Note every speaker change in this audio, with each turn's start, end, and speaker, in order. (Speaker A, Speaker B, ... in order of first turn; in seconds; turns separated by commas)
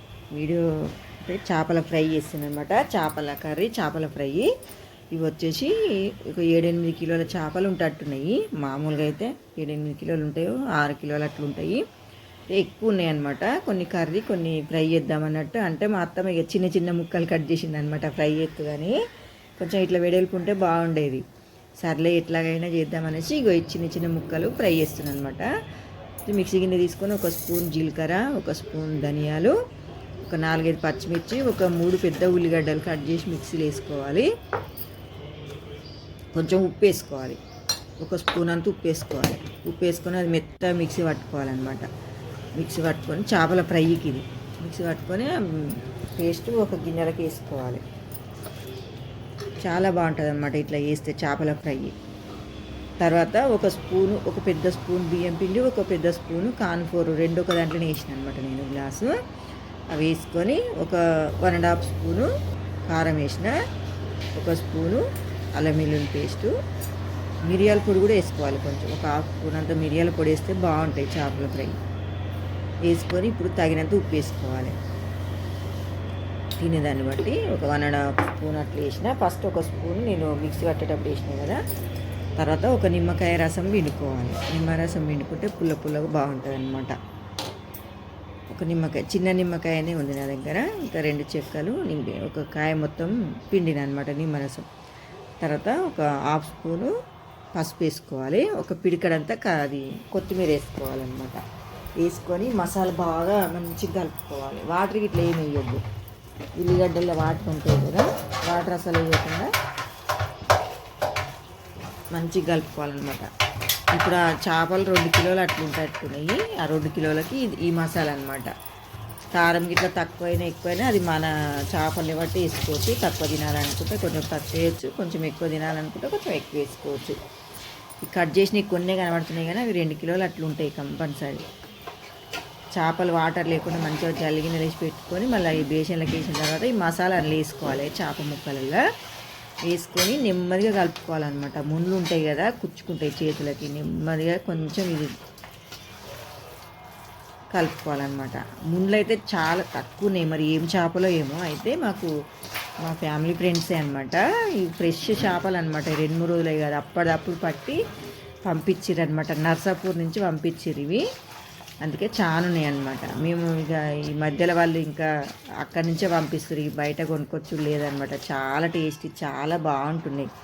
Speaker A: 0.3-0.6, Speaker A: 1.2-4.5, Speaker A: 5.1-5.7, Speaker A: 6.3-11.8, Speaker A: 12.5-19.0, Speaker A: 19.6-21.2, Speaker A: 21.8-25.5, Speaker A: 26.2-29.5, Speaker A: 30.2-34.3, Speaker A: 36.3-37.4, Speaker A: 38.0-41.8, Speaker A: 42.6-47.8, Speaker A: 49.6-51.9, Speaker A: 53.0-59.1, Speaker A: 59.9-62.3, Speaker A: 62.9-63.5, Speaker A: 64.3-65.0, Speaker A: 65.5-66.5, Speaker A: 67.5-71.8, Speaker A: 72.8-74.7, Speaker A: 76.6-81.6, Speaker A: 82.4-86.9, Speaker A: 88.5-94.7, Speaker A: 95.4-96.9, Speaker A: 97.5-101.4, Speaker A: 102.0-105.8, Speaker A: 106.6-109.5, Speaker A: 112.1-113.3, Speaker A: 113.9-118.5, Speaker A: 119.3-127.2, Speaker A: 128.0-131.4, Speaker A: 132.8-138.8, Speaker A: 139.7-145.1, Speaker A: 147.5-152.1, Speaker A: 152.8-157.8, Speaker A: 158.5-161.0, Speaker A: 161.8-165.1, Speaker A: 165.6-170.3